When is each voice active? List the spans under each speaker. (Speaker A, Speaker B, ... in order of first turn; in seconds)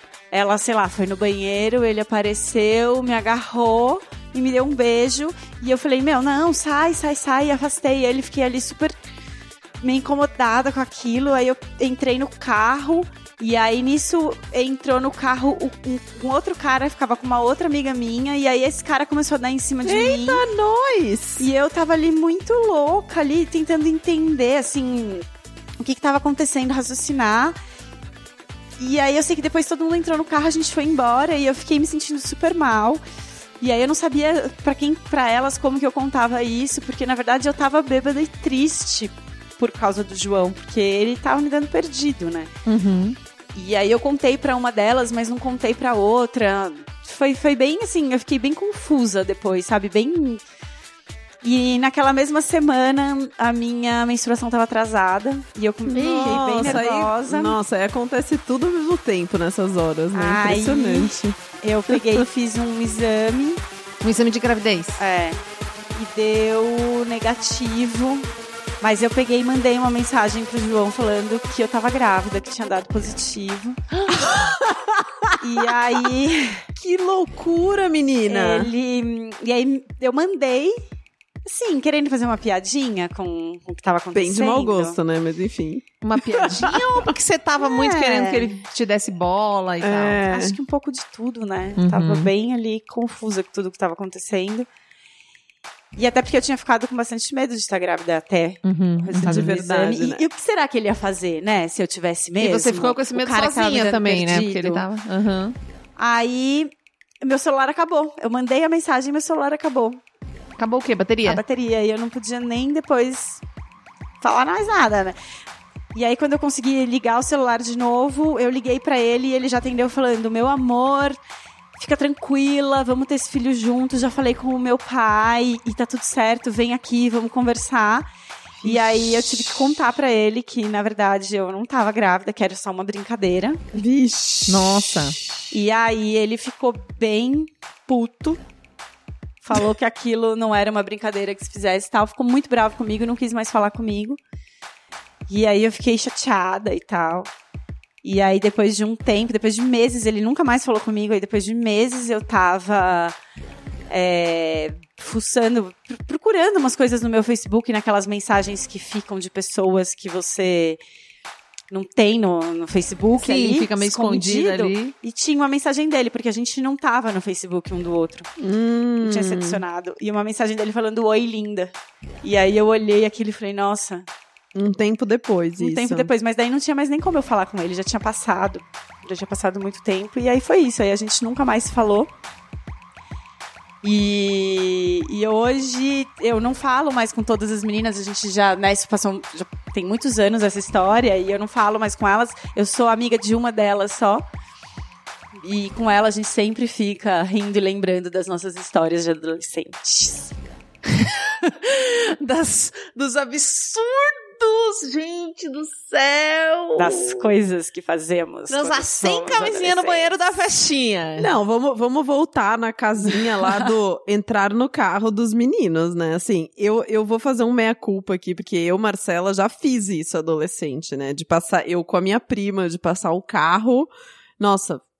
Speaker A: 0.3-9.0, 9.8-20.4, 21.4-25.2, 25.8-27.6, 28.8-33.0, 33.6-42.5, 43.5-50.4, 51.4-57.6, 60.1-63.6, 65.0-65.4, 65.9-68.3, 68.8-74.3, 75.4-76.6, 78.3-80.7, 81.5-85.0, 87.6-88.5, 90.2-94.7, 96.0-104.8, 106.0-106.7, 107.2-110.0, 111.2-113.4, 114.2-115.2, 115.9-121.2, 121.8-128.1, 128.6-133.6, 135.5-138.4, 139.4-144.2, 145.3-147.3, 148.0-153.1, 153.9-160.8, 161.7-168.3, 169.0-171.7, 172.2-174.1, 175.6-182.1, 183.8-194.2, 195.4-200.4, 206.8-210.4
Speaker B: 19.8-21.5, 55.9-61.4, 61.9-62.2, 74.3-75.3, 76.8-78.7, 84.1-86.8, 89.8-90.6, 99.2-100.2, 128.6-129.4, 133.7-135.1, 168.4-169.6, 174.5-176.1, 211.2-224.8
Speaker C: 42.6-43.2, 56.0-56.8, 64.0-65.0, 86.0-90.2, 91.8-92.3, 98.6-99.6, 102.4-105.5, 110.6-111.4, 134.5-135.2, 163.2-164.9, 200.8-207.2, 208.5-211.3, 213.2-213.7